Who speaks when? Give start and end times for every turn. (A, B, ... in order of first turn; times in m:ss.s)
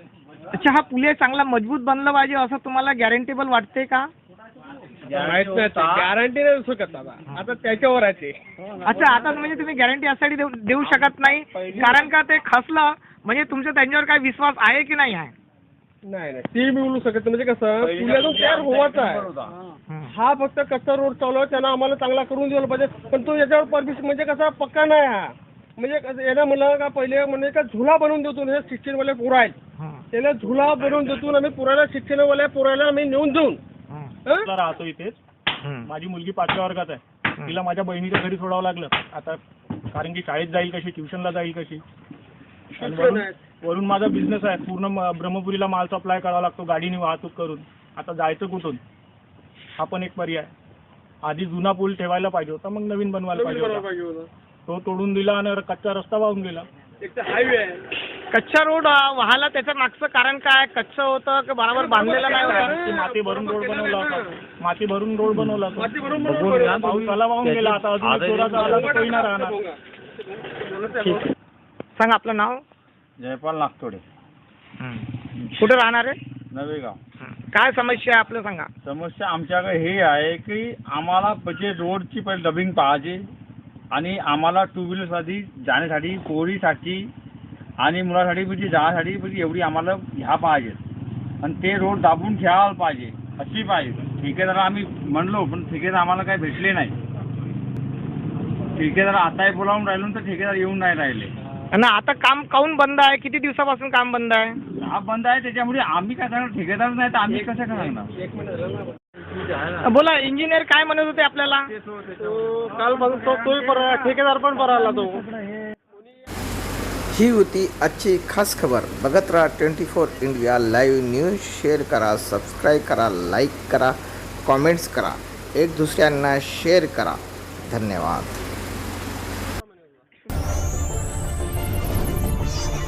0:00.6-0:04.1 A
0:05.1-0:06.1 B
0:05.1-0:08.4 C
0:08.8-0:15.3 A
0:10.8-0:12.0 B
0:16.0-0:19.3 C
0:17.8-0:19.6 B
0:20.1-0:29.6 C
0:29.8-0:30.0 A
0:30.1-0:33.6 C
0:34.4-0:35.2 D
0:35.6-0:35.9 A
0:35.9-0:39.4 D
0:39.9-0:41.8 D
0:42.8-0:43.4 C
0:42.8-0:48.8 D
0:49.8-0:50.5 D
0:51.2-0:53.9 D
0:53.3-0:54.3 C
0:54.7-0:56.7 D
0:57.0-0:57.8 C
0:58.3-1:02.7 A
1:01.7-1:04.4 C
1:02.0-1:06.0 D
1:05.7-1:07.1 C
1:06.3-1:06.9 B
1:06.6-1:09.6 D
1:07.4-1:09.2 B
1:08.5-1:11.2 C
1:12.0-1:12.6 A
1:13.2-1:14.0 B
1:14.8-1:15.1 A
1:15.6-1:16.2 A
1:16.5-1:17.0 B
1:17.2-1:18.7 A
1:18.8-1:23.3 B
1:23.9-1:27.1 B
1:27.8-1:30.8 B
1:31.4-1:37.0 B
1:38.8-1:41.3 B
1:41.7-1:44.6 A
1:44.8-1:48.1 B
1:47.3-1:49.0 C
1:49.8-1:51.7 A
1:51.9-1:52.2 B
1:52.2-1:55.2 C
1:57.1-2:08.4 E